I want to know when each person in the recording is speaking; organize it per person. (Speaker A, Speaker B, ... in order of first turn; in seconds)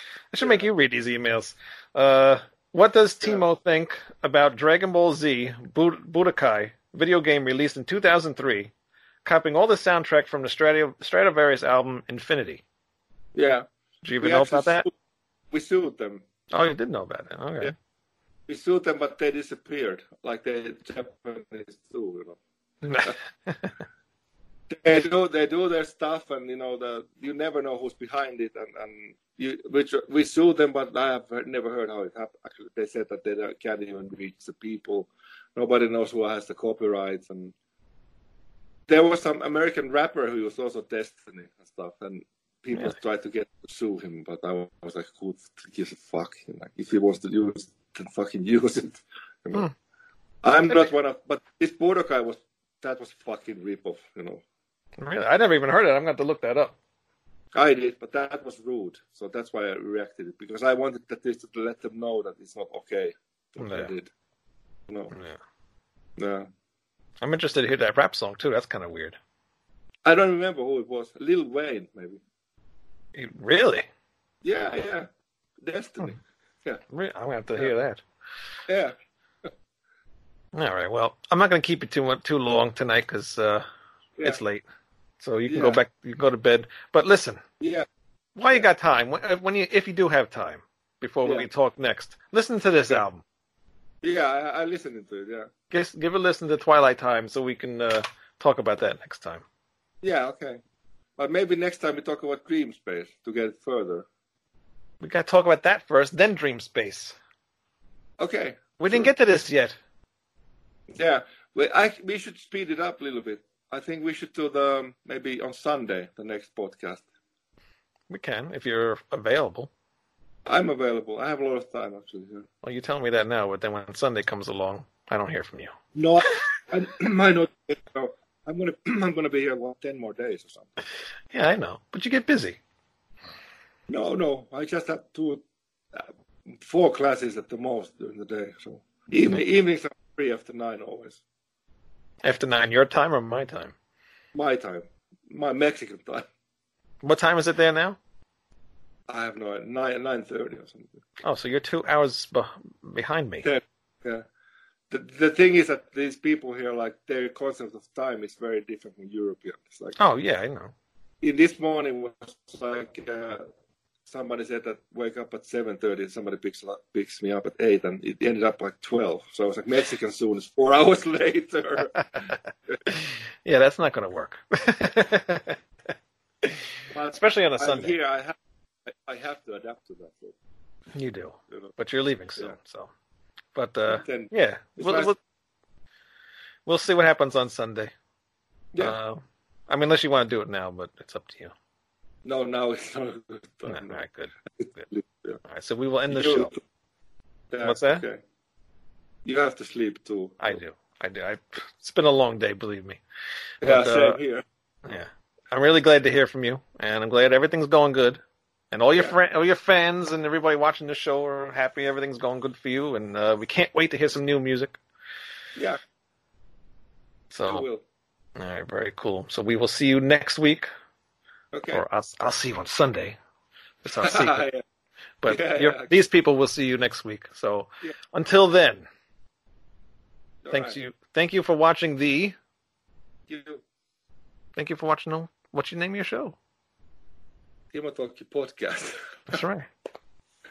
Speaker A: 0.3-8.7, 9.2-12.6, 14.0-14.8, 16.5-17.7, 22.8-23.8, 55.0-56.8, 63.6-63.9, 65.1-65.4, 67.2-69.2, 73.2-73.8, 76.9-78.0, 80.5-83.7, 84.2-84.6, 85.2-87.4, 88.4-93.2, 95.7-99.4, 105.0-107.2, 108.8-109.7, 118.1-119.7, 122.6-125.8, 131.3-132.6, 142.2-143.8, 147.0-148.0, 151.2-153.5, 160.0-160.7, 172.9-175.6, 176.4-178.0, 180.9-182.9, 183.6-185.2, 186.7-187.9, 188.8-191.5, 193.7-194.3, 195.4-196.5, 197.6-198.0, 200.4-203.0, 203.6-204.2, 204.8-208.2, 208.7-214.8, 217.3-217.7, 218.4-220.7, 221.7-223.2, 223.8-224.4, 225.2-228.9, 230.5-232.3, 234.6-236.4, 239.3-239.7
Speaker B: 0.4-0.7, 13.3-13.7, 14.2-14.9, 15.5-16.2, 18.5-22.4, 24.7-37.5, 38.9-49.7, 50.4-54.4, 57.5-64.1, 66.2-66.5, 70.0-72.2, 74.4-75.1, 75.6-76.8, 78.7-79.5, 85.5-85.8, 87.6-87.9, 94.0-95.5, 100.0-100.6, 101.2-104.1, 108.2-109.1, 111.0-117.0, 120.5-122.5, 126.0-130.7, 133.9-135.4, 135.9-141.2, 144.3-146.3, 149.1-151.0, 153.4-154.2, 154.9-160.0, 161.2-163.5, 164.1-172.8, 176.9-180.3, 183.9-185.1, 192.2-194.0, 194.6-195.4, 196.1-196.6, 197.5-198.2, 199.2-200.4, 203.6-204.4, 217.5-217.8, 221.5-221.8, 224.0-224.6, 225.3-225.9, 230.4-230.8, 233.3-233.6, 237.7-239.4